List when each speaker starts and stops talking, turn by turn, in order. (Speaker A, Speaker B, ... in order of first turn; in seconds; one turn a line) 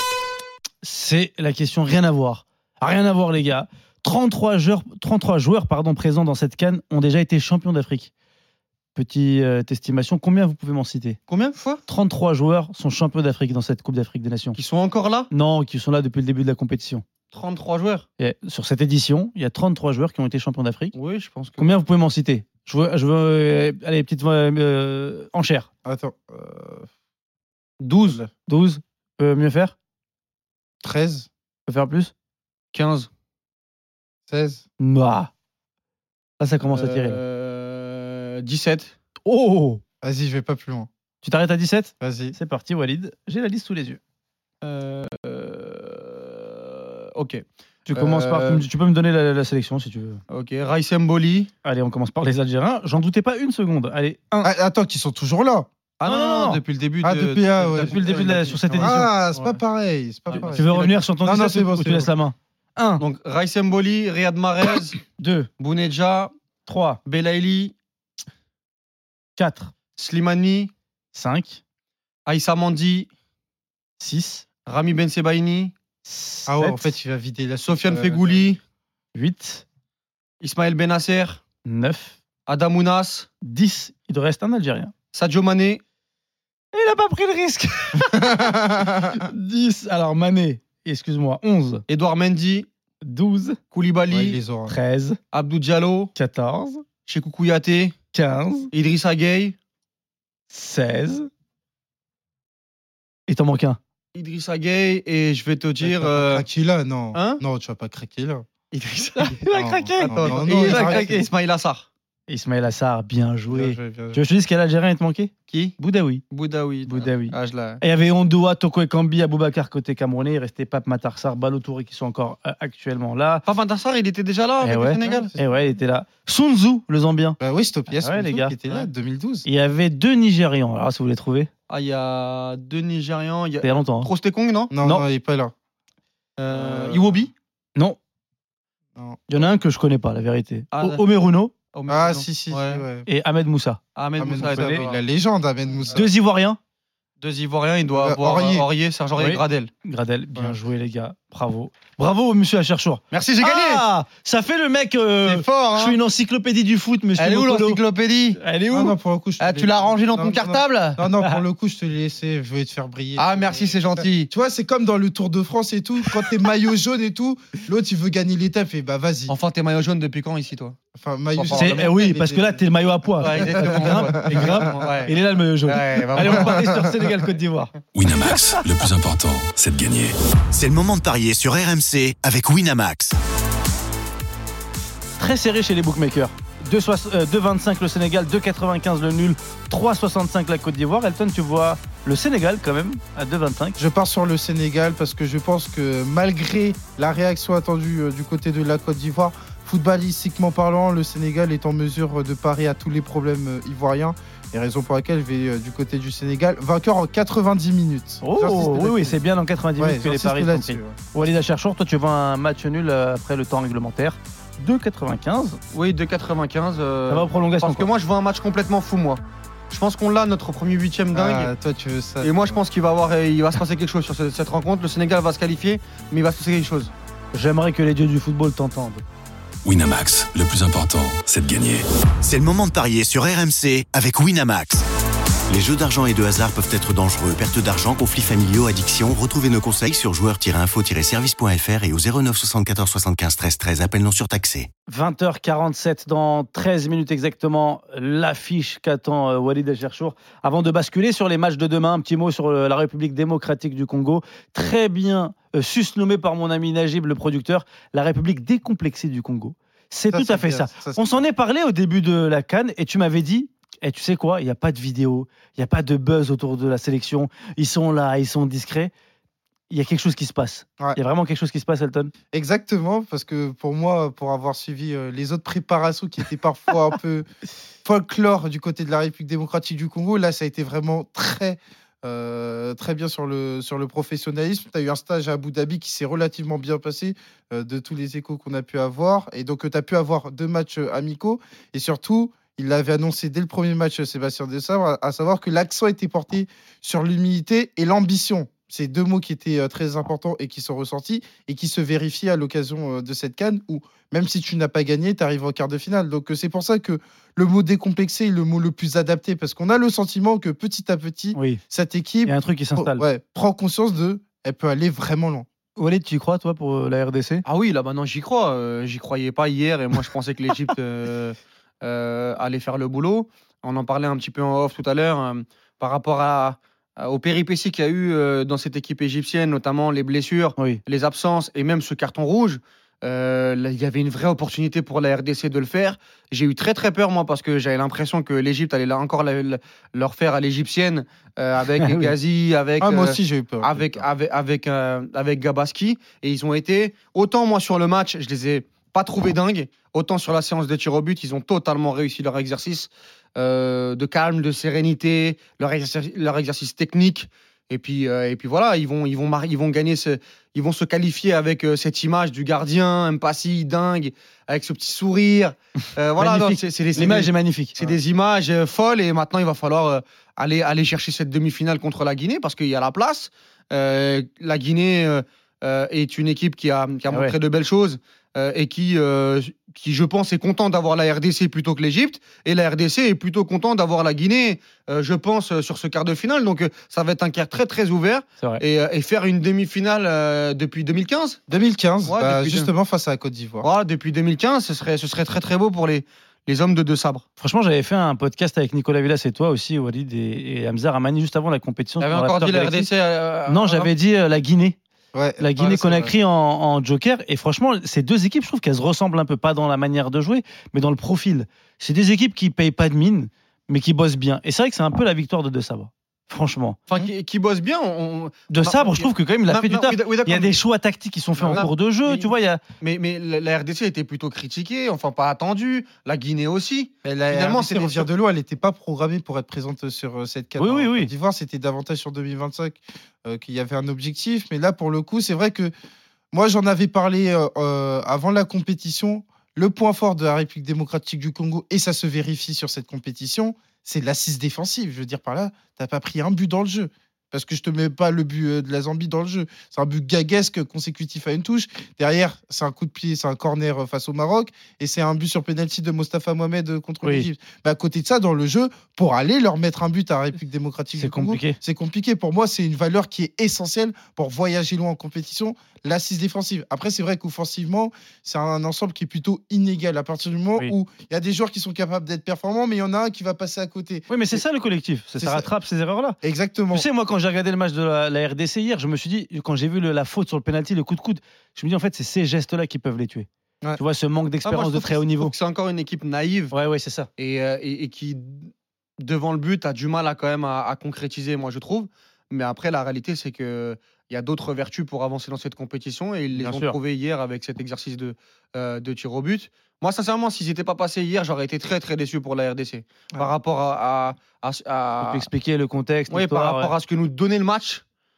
Speaker A: 0.8-8.1
Speaker A: 8.9-11.2
Speaker B: 11.3-11.8
Speaker A: 11.9-14.6
Speaker B: 14.6-15.3
Speaker A: 15.3-17.0
Speaker B: 17.3-18.1
Speaker A: 18.2-20.9
Speaker B: 20.9-21.7
Speaker A: 21.6-25.7
Speaker C: 25.9-26.9
Speaker B: 27.8-28.2
Speaker C: 28.1-28.3
Speaker A: 28.5-29.7
Speaker C: 30.8-31.3
Speaker A: 31.7-32.1
Speaker B: 32.7-33.1
Speaker C: 34.3-34.6
Speaker A: 34.8-35.3
Speaker A: 36.4-37.2
Speaker B: 36.7-38.9
Speaker A: 39.3-39.8
Speaker C: 40.0-40.9
Speaker A: 41.2-44.0
Speaker C: 42.0-42.4
Speaker B: 44.6-48.7
Speaker A: 47.9-50.2
Speaker B: 50.3-51.5
Speaker A: 51.6-54.5
Speaker C: 54.4-55.7
Speaker B: 56.0-58.9
Speaker A: 56.0-56.6
Speaker C: 57.0-58.0
Speaker A: 57.8-59.6
Speaker C: 58.8-60.7
Speaker B: 60.3-61.0
Speaker A: 60.3-63.0
Speaker C: 61.2-62.1
Speaker B: 63.0-65.0
Speaker A: 65.2-65.5
Speaker B: 65.6-66.3
Speaker A: 66.7-67.0
Speaker B: 67.0-67.8
Speaker A: 69.4-69.7
Speaker B: 70.0-70.7
Speaker A: 71.1-71.6
Speaker B: 72.3-73.1
Speaker A: 74.0-74.5
Speaker B: 74.7-75.7
Speaker A: 76.0-77.0
Speaker C: 76.5-78.5
Speaker B: 77.6-78.6
Speaker A: 79.2-79.6
Speaker B: 80.4-81.4
Speaker A: 81.7-82.2
Speaker B: 82.5-83.3
Speaker A: 83.4-84.9
Speaker B: 85.1-85.8
Speaker A: 86.7-91.8
Speaker C: 88.0-89.2
Speaker B: 91.9-92.7
Speaker A: 93.0-93.6
Speaker B: 93.7-94.4
Speaker C: 94.1-94.8
Speaker A: 94.7-95.2
Speaker B: 95.3-96.1
Speaker A: 96.2-96.8
Speaker B: 97.0-98.0
Speaker A: 98.1-98.7
Speaker B: 98.7-99.6
Speaker A: 100.5-101.3
Speaker A: 103.3-103.8
Speaker B: 104.1-106.5
Speaker C: 105.8-108.5
Speaker B: 107.2-107.4
Speaker B: 108.7-109.4
Speaker A: 109.2-111.3
Speaker C: 109.5-111.1
Speaker B: 110.1-111.9
Speaker A: 112.3-116.2
Speaker C: 113.5-114.2
Speaker B: 115.5-115.8
Speaker B: 116.3-117.8
Speaker A: 116.9-123.4
Speaker B: 123.5-125.3
Speaker A: 124.6-127.4
Speaker C: 125.1-125.5
Speaker C: 127.4-129.5
Speaker A: 128.0-128.6
Speaker A: 129.4-131.5
Speaker B: 131.7-134.7
Speaker A: 133.6-134.1
Speaker C: 134.7-135.5
Speaker B: 136.4-137.3
Speaker C: 136.5-137.2
Speaker C: 139.0-139.5
Speaker A: 139.3-141.5
Speaker B: 140.7-141.0
Speaker B: 141.7-142.8
Speaker C: 141.9-143.1
Speaker A: 143.1-143.8
Speaker B: 144.0-145.0
Speaker C: 144.2-146.1
Speaker A: 144.4-144.8
Speaker A: 145.9-146.6
Speaker B: 147.2-149.7
Speaker C: 147.9-148.7
Speaker A: 149.2-157.8
Speaker B: 153.1-153.9
Speaker B: 155.2-156.0
Speaker B: 157.2-158.4
Speaker A: 158.4-158.9
Speaker C: 158.7-169.3
Speaker B: 159.4-161.0
Speaker B: 163.2-164.3
Speaker B: 169.3-170.8
Speaker C: 170.9-172.6
Speaker B: 171.3-171.9
Speaker A: 171.5-177.7
Speaker B: 173.2-176.7
Speaker C: 173.4-174.7
Speaker C: 176.2-176.9
Speaker D: 177.9-180.1
Speaker E: 180.5-183.2
Speaker A: 185.2-193.8
Speaker C: 193.8-209.2
Speaker A: 208.2-215.6
Speaker C: 209.8-211.1
Speaker B: 215.7-221.5
Speaker A: 217.1-217.9
Speaker C: 221.1-222.6
Speaker B: 222.2-226.9
Speaker A: 227.3-229.0
Speaker D: 229.7-231.8
Speaker E: 232.2-234.8
Speaker E: 235.5-244.7
Speaker A: 244.9-268.9
Speaker C: 260.1-261.2
Speaker A: 269.7-272.1
Speaker C: 272.3-277.3
Speaker C: 277.8-315.5
Speaker A: 311.4-311.6
Speaker A: 312.3-313.0
Speaker A: 315.8-317.4
Speaker B: 317.4-391.4
Speaker A: 341.8-342.1
Speaker C: 342.8-344.1
Speaker A: 366.2-367.9
Speaker C: 391.5-393.7
Speaker B: 392.1-392.7
Speaker B: 393.6-397.2
Speaker A: 397.4-402.9
Speaker B: 402.0-403.9
Speaker A: 403.5-404.8
Speaker C: 405.1-406.1
Speaker A: 405.4-416.8
Speaker B: 416.9-420.6
Speaker A: 418.5-422.6
Speaker B: 421.4-422.3
Speaker B: 422.8-428.1
Speaker C: 427.0-435.7
Speaker A: 430.6-431.1
Speaker C: 436.3-474.4
Speaker A: 457.0-457.3
Speaker A: 461.0-461.6
Speaker A: 474.1-476.2
Speaker C: 475.2-475.5
Speaker C: 476.2-476.9
Speaker A: 476.7-485.3
Speaker B: 484.4-486.6
Speaker A: 486.5-487.1
Speaker B: 487.2-505.3
Speaker A: 496.3-496.8
Speaker A: 505.0-506.7
Speaker B: 506.1-507.8